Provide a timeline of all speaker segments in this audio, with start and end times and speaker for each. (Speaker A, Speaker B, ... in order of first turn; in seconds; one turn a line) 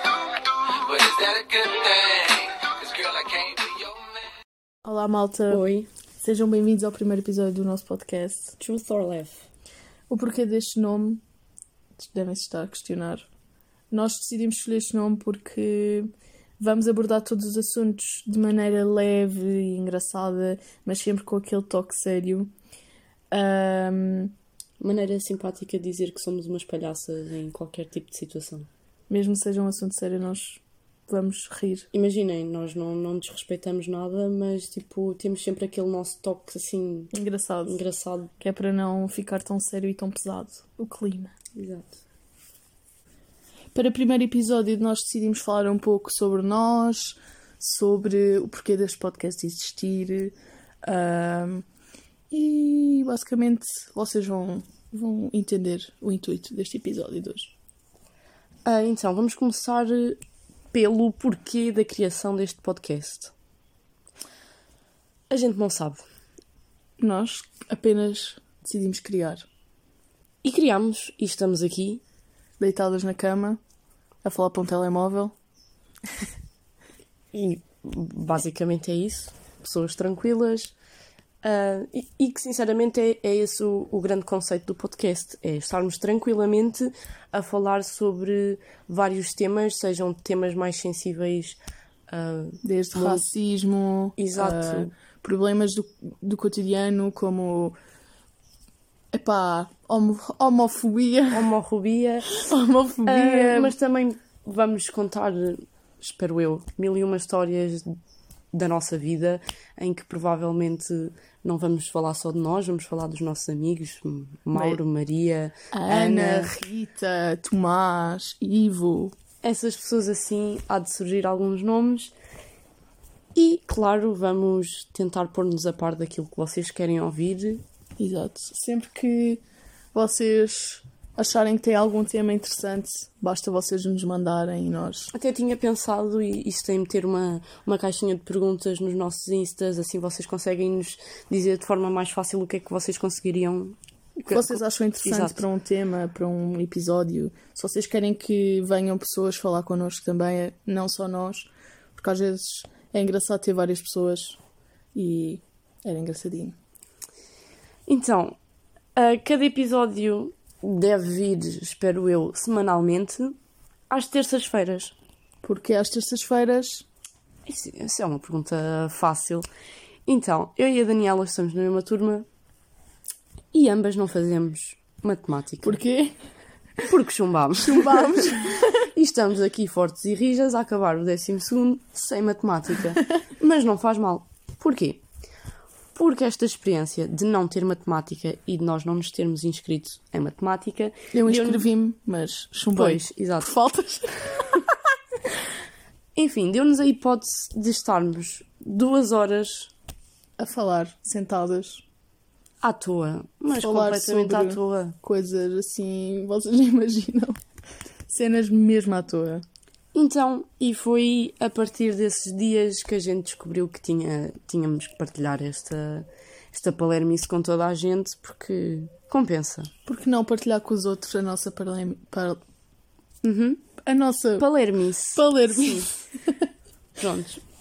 Speaker A: 0.7-4.1
Speaker B: 4.8-5.6
Speaker C: 5.5-5.9
Speaker B: 6.2-8.6
Speaker C: 8.6-9.4
Speaker B: 10.1-11.2
Speaker B: 12.0-13.3
Speaker B: 13.9-22.5
Speaker B: 23.3-24.3
Speaker C: 24.8-28.7
Speaker B: 29.1-31.9
Speaker C: 31.9-37.1
Speaker B: 37.1-37.8
Speaker C: 37.7-38.3
Speaker B: 38.4-41.3
Speaker C: 41.6-42.0
Speaker B: 43.7-51.6
Speaker B: 52.3-57.5
Speaker C: 58.7-60.2
Speaker C: 60.7-63.3
Speaker C: 65.3-66.0
Speaker B: 67.0-69.5
Speaker C: 70.4-72.0
Speaker B: 72.6-73.6
Speaker B: 74.2-75.3
Speaker C: 77.3-80.7
Speaker C: 81.4-91.6
Speaker C: 92.1-93.2
Speaker B: 92.6-97.8
Speaker C: 94.2-94.9
Speaker B: 99.1-101.5
Speaker C: 101.3-102.3
Speaker B: 102.4-103.8
Speaker C: 103.1-107.9
Speaker C: 108.5-116.5
Speaker B: 114.5-114.8
Speaker B: 115.7-119.1
Speaker C: 119.4-122.1
Speaker C: 123.3-127.6
Speaker B: 128.0-129.4
Speaker B: 129.9-135.1
Speaker C: 135.1-145.4
Speaker B: 144.3-154.4
Speaker B: 154.9-156.6
Speaker C: 157.9-158.4
Speaker C: 159.0-163.4
Speaker C: 163.9-164.9
Speaker B: 165.4-166.8
Speaker C: 167.5-169.5
Speaker C: 170.1-172.3
Speaker C: 173.5-175.8
Speaker B: 175.6-176.2
Speaker C: 176.8-185.0
Speaker B: 177.6-178.8
Speaker C: 185.9-191.7
Speaker B: 191.1-194.6
Speaker C: 192.7-193.5
Speaker C: 196.2-199.7
Speaker B: 200.4-201.8
Speaker C: 202.6-205.0
Speaker B: 203.5-207.4
Speaker B: 208.1-209.4
Speaker C: 209.9-219.7
Speaker B: 219.9-222.4
Speaker C: 223.2-223.6
Speaker B: 223.8-224.5
Speaker C: 224.4-225.9
Speaker B: 225.1-226.0
Speaker C: 227.0-227.4